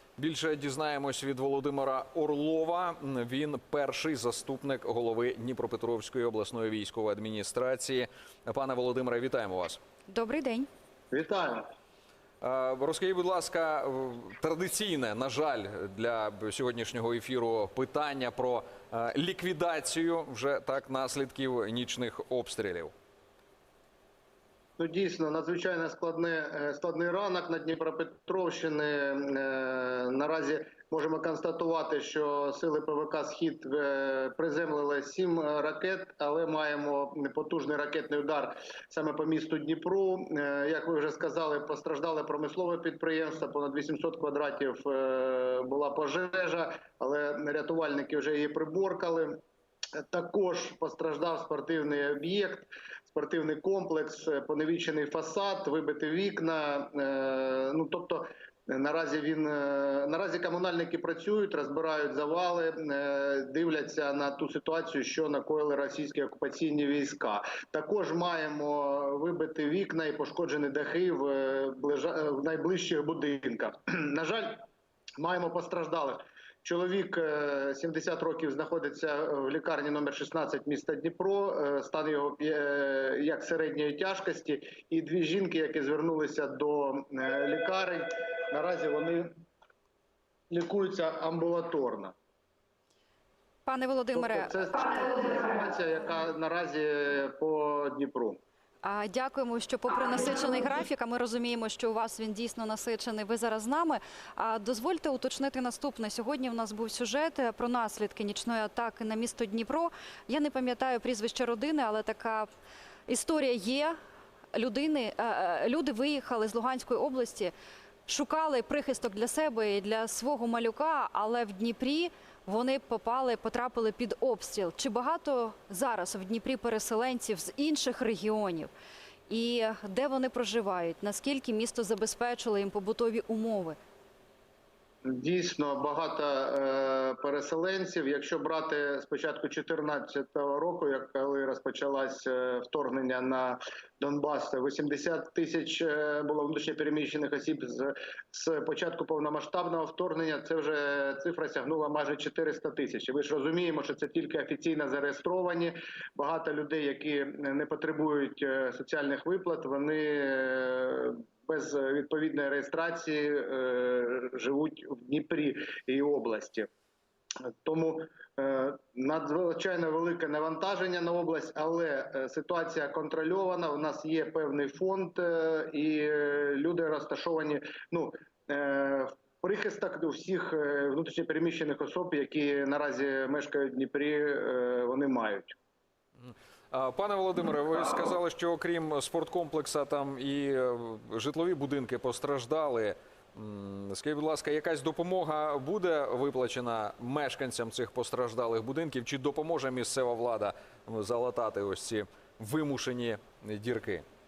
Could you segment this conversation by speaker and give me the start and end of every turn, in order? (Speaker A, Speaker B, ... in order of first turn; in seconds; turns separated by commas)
Speaker A: 0.2-9.8, Speaker B: 10.1-10.7, Speaker C: 11.1-11.7, Speaker A: 12.4-22.9, Speaker C: 24.8-49.4, Speaker C: 50.0-74.6, Speaker C: 75.2-89.3, Speaker C: 90.5-92.1, Speaker B: 93.7-95.0, Speaker C: 94.1-98.4, Speaker B: 98.8-112.5, Speaker B: 113.1-114.0, Speaker B: 114.5-117.5, Speaker B: 118.1-128.7, Speaker B: 129.3-133.8, Speaker C: 135.0-166.7, Speaker C: 167.6-185.5, Speaker A: 186.2-204.0